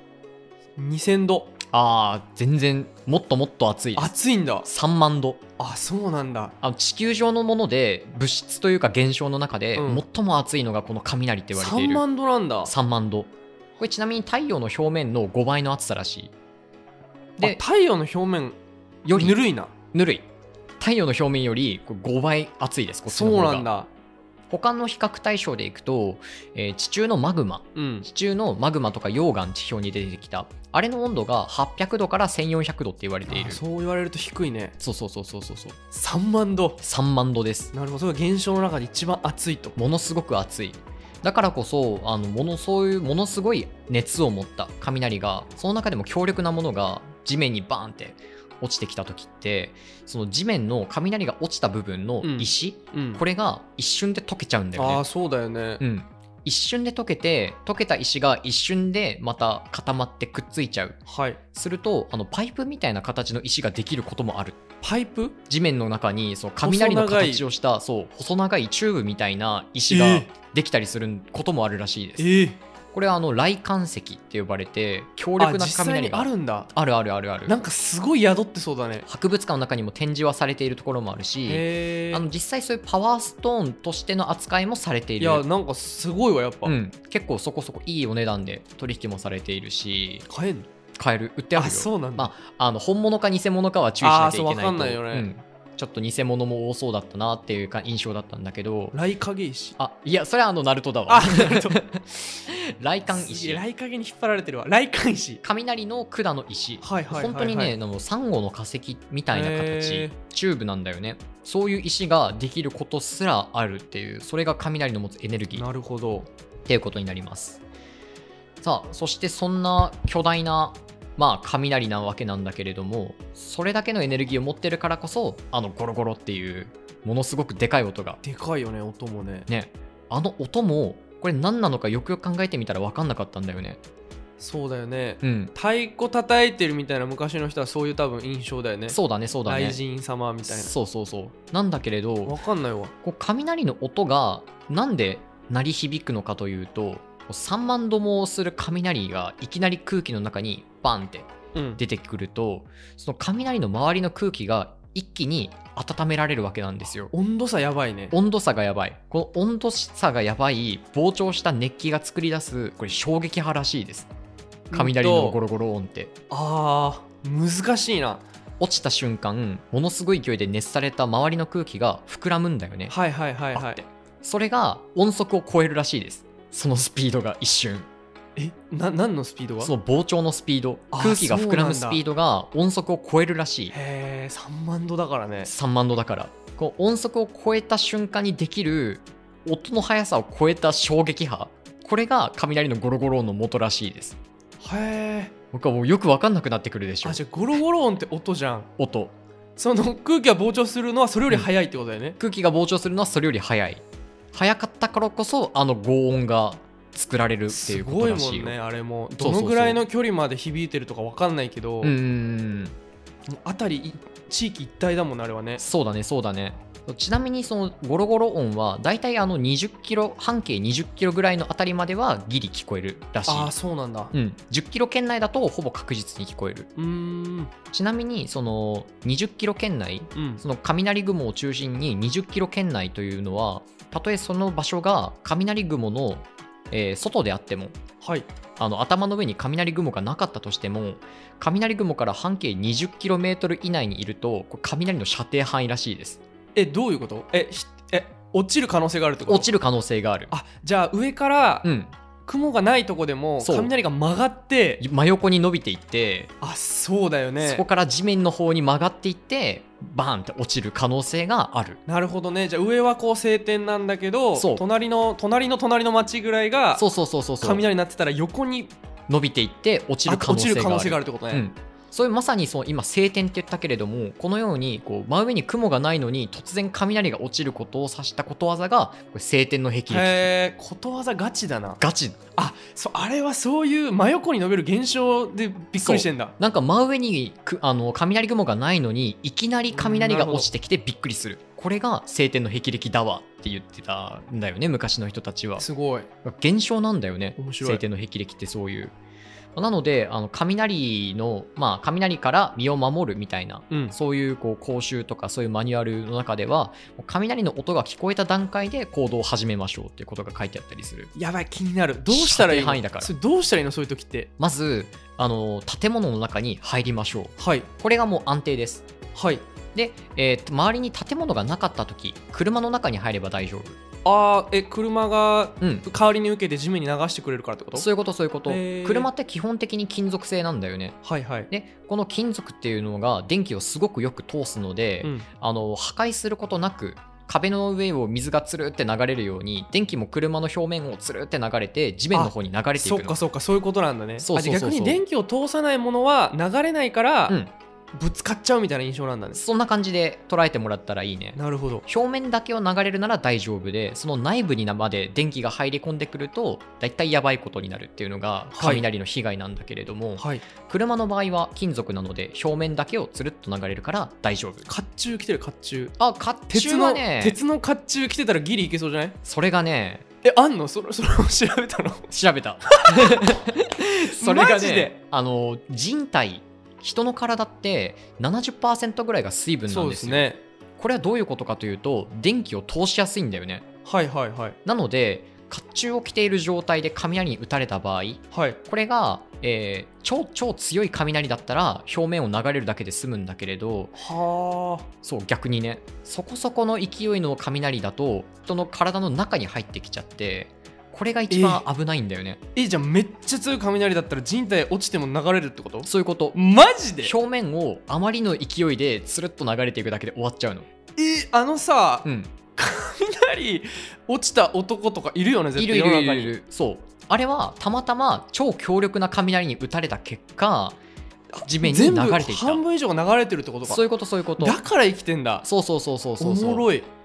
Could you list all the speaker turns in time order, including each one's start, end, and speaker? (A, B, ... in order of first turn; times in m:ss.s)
0:00.8-0:01.6 A
0:01.7-0:04.1 B
0:04.0-0:04.7 A
0:04.6-0:05.4 B
0:05.6-0:06.5 A
0:06.6-0:12.0 B
0:09.8-0:10.0 A
0:11.5-0:12.7 A
0:12.6-0:16.3 B
0:17.4-0:18.6 A
0:19.0-0:19.4 B
0:19.1-0:19.7 A
0:19.9-0:20.3 B
0:20.8-0:23.7 B
0:23.1-0:23.9 A
0:24.5-0:33.6 B
0:27.7-0:28.0 A
0:33.3-0:34.8 A
0:34.8-0:35.8 B
0:35.9-0:36.8 A
0:36.8-0:37.7 B
0:37.7-0:39.8 A
0:39.8-0:55.0 B
0:52.2-0:53.2 A
0:54.8-0:55.8 A
0:55.8-1:01.0 B
1:01.1-1:01.4 A
1:01.5-1:04.6 B
1:04.8-1:05.4 A
1:05.5-1:12.3 B
1:06.6-1:07.4 A
1:09.9-1:10.3 A
1:12.2-1:12.6 A
1:12.9-1:17.6 B
1:15.4-1:16.7 A
1:17.5-1:19.0 A
1:19.1-1:25.4 B
1:21.4-1:22.3 A
1:25.2-1:26.7 A
1:26.6-1:30.2 B
1:30.3-1:30.7 A
1:31.0-1:39.0 B
1:31.6-1:32.3 A
1:34.0-1:35.3 A
1:38.9-1:39.8 A
1:39.8-1:43.6 B
1:41.1-1:41.8 A
1:43.1-1:45.4 A
1:45.4-1:55.6 B
1:46.8-1:47.8 A
1:49.3-1:50.1 A
1:55.5-1:56.3 A
1:56.7-1:57.6 B
1:58.6-2:08.2 B
2:08.2-2:09.5 A
2:09.5-2:13.8 B
2:14.4-2:20.7 A
2:15.2-2:15.5 B
2:18.9-2:19.8 B
2:20.4-2:22.3 B
2:22.2-2:22.9 A
2:23.0-2:37.1 B
2:31.5-2:31.8 A
2:37.1-2:38.1 A
2:38.1-2:44.1 B
2:44.7-2:45.4 A
2:44.7-2:46.1 B
2:46.3-2:48.2 A
2:48.6-2:52.9 B
2:52.9-2:53.8 A
2:53.5-2:57.9 B
2:58.4-2:59.7 A
2:59.6-3:03.7 B
3:00.9-3:02.0 A
3:03.7-3:05.5 A
3:05.4-3:14.2 B
3:14.6-3:15.3 A
3:15.5-3:17.2 B
3:17.0-3:18.7 A
3:18.8-3:19.1 B
3:19.6-3:22.2 A
3:22.2-3:28.6 B
3:27.5-3:31.9 A
3:29.2-3:29.8 B
3:31.8-3:32.7 B
3:33.3-3:35.6 A
3:35.6-3:43.5 B
3:43.3-3:44.1 A
3:44.1-3:46.7 B
3:46.8-3:47.5 A
3:47.7-3:57.8 B
3:50.1-3:50.4 A
3:58.0-3:58.3 A
3:58.6-4:06.2 B
4:06.5-4:09.5 A
4:09.2-4:10.3 B
4:10.3-4:11.7 A
4:11.6-4:11.9 B
4:12.2-4:14.8 A
4:13.4-4:13.7 B
4:14.8-4:16.3 B
4:16.4-4:17.6 A
4:17.4-4:21.8 B
4:21.9-4:26.8 A
4:24.3-4:24.6 B
4:26.8-4:27.6 B
4:27.4-4:28.7 A
4:29.1-4:40.3 B
4:30.0-4:31.4 A
4:39.9-4:41.8 A
4:41.8-4:42.2 B
4:42.4-4:46.3 A
4:45.8-4:55.6 B
4:49.7-4:50.5 A
4:55.6-4:56.1 A
4:56.2-4:58.9 B
4:57.4-4:57.8 A
4:59.6-5:11.1 B
5:03.7-5:03.9 A
5:11.1-5:14.3 A
5:12.1-5:13.1 B
5:14.4-5:18.9 B
5:17.4-5:17.7 A
5:19.1-5:19.4 A
5:19.7-5:23.8 B
5:24.0-5:27.9 A
5:25.6-5:25.8 B
5:27.7-5:31.0 B
5:28.4-5:29.1 A
5:31.0-5:31.5 A
5:31.5-5:43.2 B
5:42.1-5:47.4 A
5:44.2-5:45.0 B
5:47.9-5:49.4 A
5:49.3-6:04.7 B
5:51.4-5:51.8 A
5:58.5-5:58.8 A
6:00.2-6:00.4 A
6:04.6-6:05.9 A
6:06.0-6:07.4 B
6:06.5-6:09.2 A
6:09.2-6:10.0 B
6:10.2-6:12.1 A
6:12.1-6:23.7 B
6:12.7-6:13.5 A
6:14.1-6:14.9 A
6:19.7-6:20.4 A
6:23.8-6:24.6 A
6:24.6-6:34.0 B
6:28.3-6:28.6 A
6:34.0-6:34.9 A
6:35.0-6:42.4 B
6:41.3-6:41.6 A
6:42.5-6:47.2 A
6:45.8-6:46.4 B
6:47.0-6:50.7 B
6:51.0-6:56.3 A
6:52.0-6:52.3 B
6:55.6-7:00.8 B
7:01.3-7:03.8 A
7:01.4-7:02.6 B
7:03.6-7:04.6 B
7:04.4-7:05.4 A
7:05.4-7:06.7 B
7:06.2-7:06.9 A